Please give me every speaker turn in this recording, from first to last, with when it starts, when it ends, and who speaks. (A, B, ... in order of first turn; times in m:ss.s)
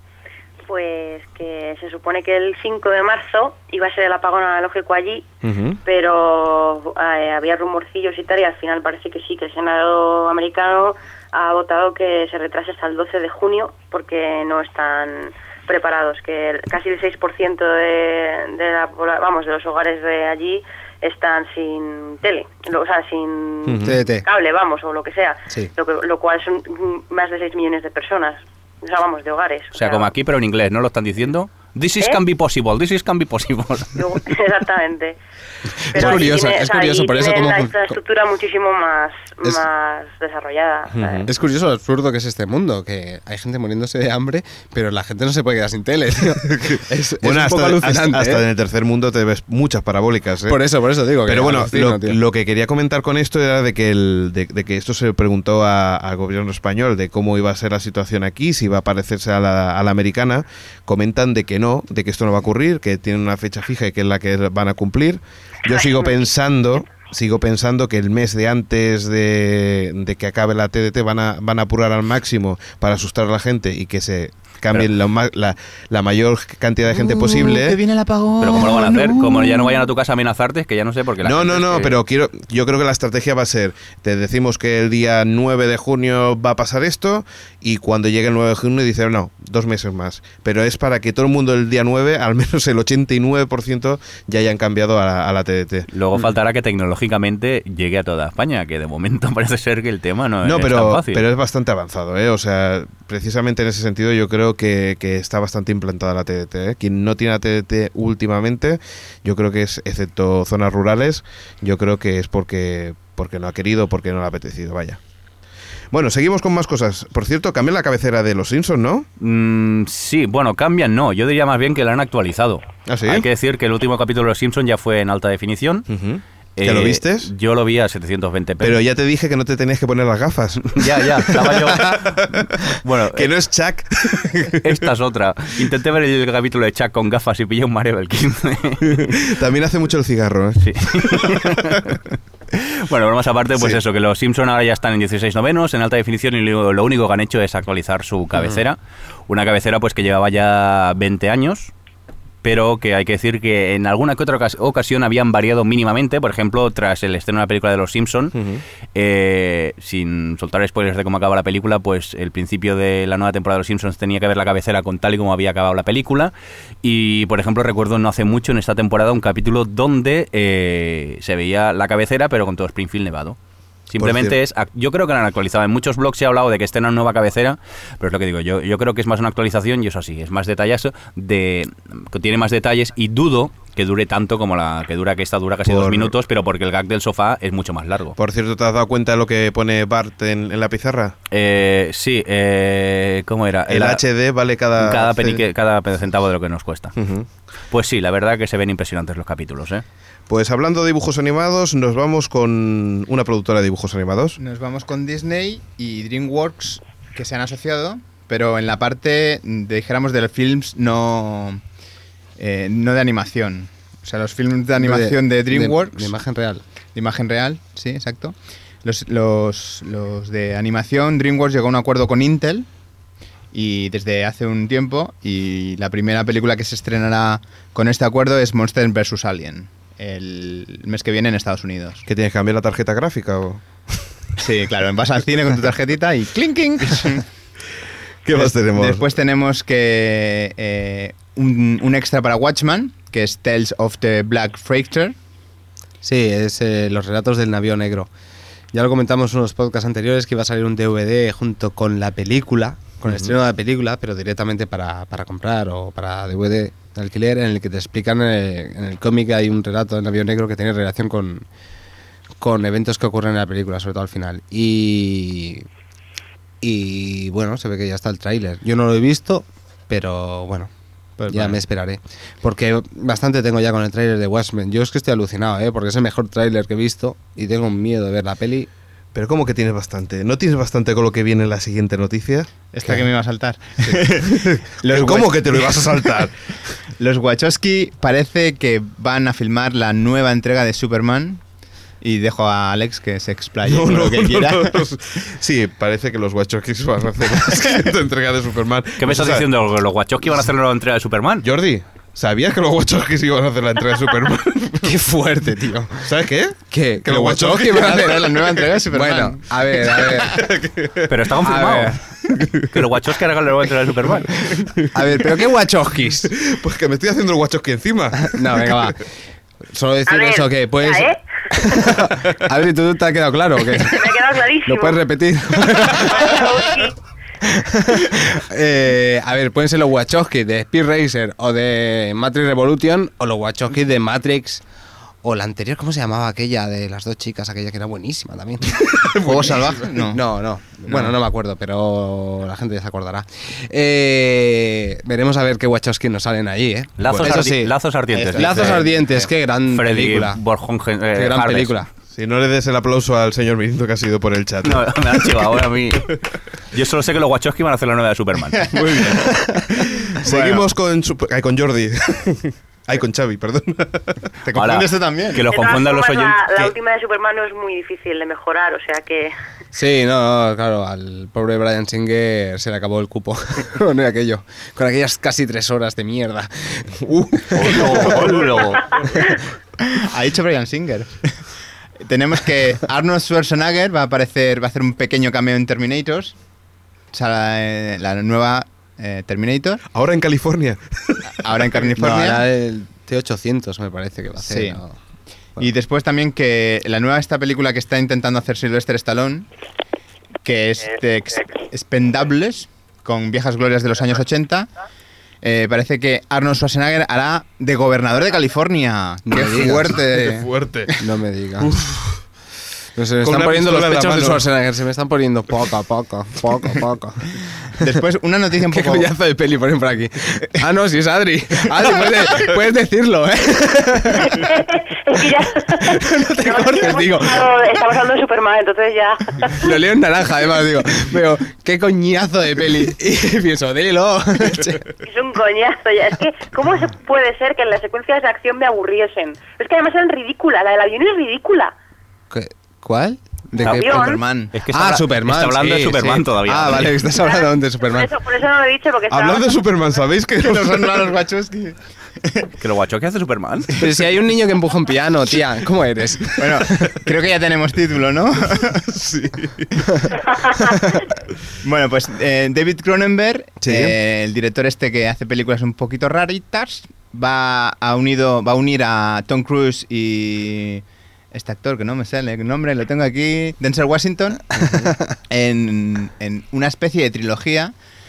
0:00.6-0:05.2 A
0:05.4-0:05.8 B
0:05.8-0:30.1 A
0:23.6-0:24.0 B
0:23.8-0:24.2 C
0:29.7-0:34.0 D
0:33.9-0:35.2 A
0:35.8-0:38.0 C
0:35.9-0:41.3 A
0:40.9-0:41.3 B
0:41.3-0:48.4 C
0:47.2-0:50.6 B
0:50.5-0:52.2 C
0:51.2-1:17.8 B
1:05.7-1:06.1 A
1:16.9-1:19.8 E
1:18.4-1:22.0 D
1:21.2-1:35.9 B
1:35.9-1:41.2 D
1:40.4-1:55.0 B
1:55.9-1:59.1 B
1:59.2-2:05.8 D
2:02.9-2:03.2 B
2:05.9-2:07.3 B
2:06.6-2:08.8 D
2:08.6-2:12.5 B
2:10.7-2:13.3 D
2:13.1-2:14.9 B
2:14.6-2:19.2 D
2:18.8-2:22.0 B
2:20.6-2:22.0 D
2:22.5-2:31.7 D
2:23.5-2:23.8 B
2:32.4-2:38.3 D
2:38.3-2:38.6 B
2:38.9-2:53.4 D
2:53.9-3:08.2 D
2:54.0-2:54.4 B
3:05.6-3:06.1 B
3:08.2-3:11.2 B
3:11.3-3:14.0 D
3:13.7-3:15.4 B
3:14.8-3:16.9 D
3:17.0-3:17.3 B
3:17.7-3:19.8 D
3:20.3-3:24.4 B
3:24.4-3:31.6 E
3:32.4-3:36.1 E
3:34.8-3:36.6 C
3:36.9-3:42.7 E
3:43.5-3:52.0 E
3:52.1-3:53.6 B
3:54.4-3:57.2 E
3:58.2-3:59.0 B
3:58.3-4:05.1 E
4:06.0-4:08.1 C
4:08.7-4:21.4 C
4:13.0-4:13.3 B
4:22.4-4:25.6 C
4:26.6-4:30.7 C
4:31.2-4:31.6 E
4:31.3-4:38.7 C
4:39.1-4:42.9 B
4:42.7-4:46.2 E
4:43.8-4:46.3 B
4:47.0-4:51.4 E
4:52.0-4:54.8 E
4:53.6-4:59.5 B
4:59.0-5:01.5 D
5:01.4-5:05.0 B
5:04.8-5:06.0 C
5:06.0-5:08.4 B
5:06.7-5:10.4 C
5:07.8-5:09.6 E
5:10.2-5:11.3 B
5:11.1-5:12.0 D
5:11.4-5:12.0 C
5:12.3-5:12.8 B
5:12.7-5:14.3 D
5:14.4-5:16.3 C
5:14.6-5:15.1 B
5:16.3-5:18.9 B
5:18.2-5:19.1 C
5:19.7-5:26.7 C
5:20.1-5:21.9 A
5:23.8-5:25.0 A
5:25.7-5:27.0 A
5:27.4-5:34.6 C
5:35.2-5:47.7 C
5:39.2-5:40.2 E
5:40.9-5:41.1 E
5:47.0-5:48.9 D
5:48.1-5:49.3 E
5:48.3-5:50.4 C
5:49.7-5:51.8 D
5:51.1-5:51.9 C
5:52.1-5:55.7 B
5:54.6-5:56.2 D
5:56.7-5:58.7 D
5:58.7-5:59.1 E
5:58.8-5:59.3 B
5:59.9-6:04.3 B
6:00.2-6:00.6 E
6:04.4-6:05.4 E
6:04.5-6:06.5 D
6:05.5-6:09.3 A
6:09.7-6:18.4 C
6:17.0-6:18.4 B
6:17.5-6:19.0 D
6:19.8-6:21.3 E
6:22.0-6:26.3 E
6:27.1-6:29.8 E
6:29.9-6:31.5 B
6:31.3-6:32.4 E
6:32.0-6:35.0 C
6:34.4-6:34.8 E
6:35.6-6:39.5 E
6:40.4-6:44.7 E
6:45.4-6:51.0 E
6:49.3-6:50.0 C
6:49.5-6:50.9 B
6:51.0-6:51.7 C
6:51.6-6:52.2 B
6:53.0-6:57.9 C
6:53.2-6:54.5 B
6:57.8-6:59.1 E
6:58.7-7:04.5 C
7:04.2-7:09.7 A
7:05.8-7:07.5 C
7:09.5-7:14.9 C
7:15.0-7:21.7 A
7:22.3-7:28.1 C
7:23.6-7:24.2 A
7:23.6-7:24.6 E
7:24.5-7:27.0 D
7:27.2-7:29.6 A
7:29.1-7:31.1 B
7:30.4-7:32.5 E
7:32.6-7:33.8 D
7:33.8-7:37.0 C
7:36.4-7:38.9 E
7:38.9-7:39.8 B
7:40.2-7:40.7 E
7:41.6-7:54.4 E
7:43.6-7:43.9 B
7:55.3-7:57.7 E